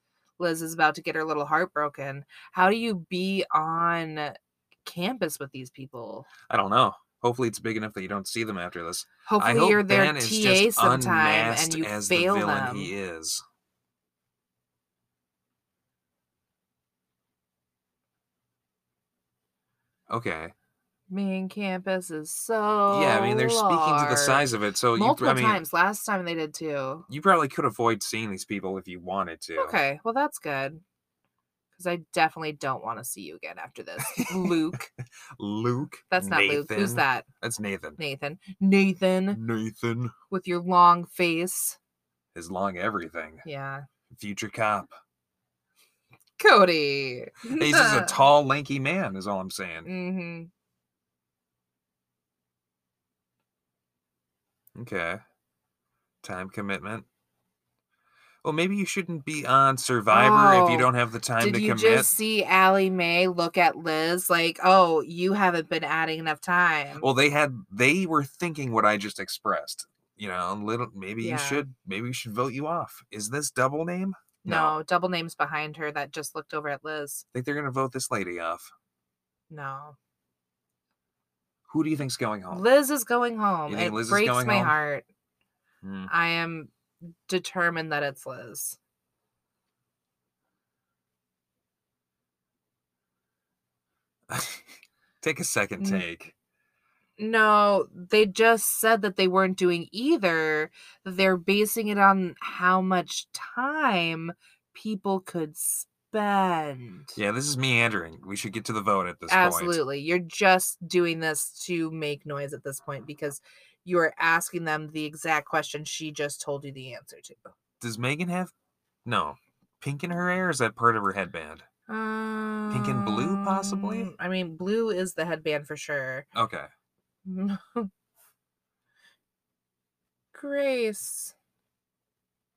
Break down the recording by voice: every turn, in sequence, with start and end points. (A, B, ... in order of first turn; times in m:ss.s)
0:00.4-0:06.3 A
0:06.5-0:13.4 B
0:09.2-0:12.9 A
0:20.1-0:20.5 B
0:21.1-0:27.0 A
0:22.9-0:25.6 B
0:27.1-0:29.7 B
0:29.6-0:30.8 A
0:31.7-0:34.9 A
0:34.0-0:34.7 B
0:35.4-0:38.0 B
0:36.1-0:37.2 A
0:38.0-0:39.4 A
0:39.3-0:40.1 B
0:40.3-0:41.8 A
0:42.3-0:43.4 B
0:43.4-0:43.8 A
0:44.1-0:44.9 B
0:46.4-0:48.2 A
0:47.5-0:49.9 B
0:49.8-0:50.5 A
0:54.8-0:55.2 B
0:56.2-0:57.0 B
0:58.4-1:02.1 B
1:00.1-1:07.0 A
1:07.0-1:14.8 B
1:11.2-1:11.6 A
1:14.4-1:17.2 A
1:17.3-1:18.7 B
1:19.5-1:20.0 A
1:21.7-1:22.6 B
1:22.5-1:25.1 A
1:23.7-1:24.8 B
1:25.8-1:26.1 B
1:26.1-1:28.8 A
1:34.3-1:36.3 B
1:35.8-1:36.0 A
1:37.2-1:47.2 A
1:47.2-1:49.8 B
1:49.3-1:57.5 A
1:57.8-1:58.5 B
1:59.0-2:01.6 B
2:01.9-2:06.3 A
2:02.7-2:04.1 B
2:06.3-2:06.7 B
2:07.2-2:07.9 A
2:10.3-2:11.3 A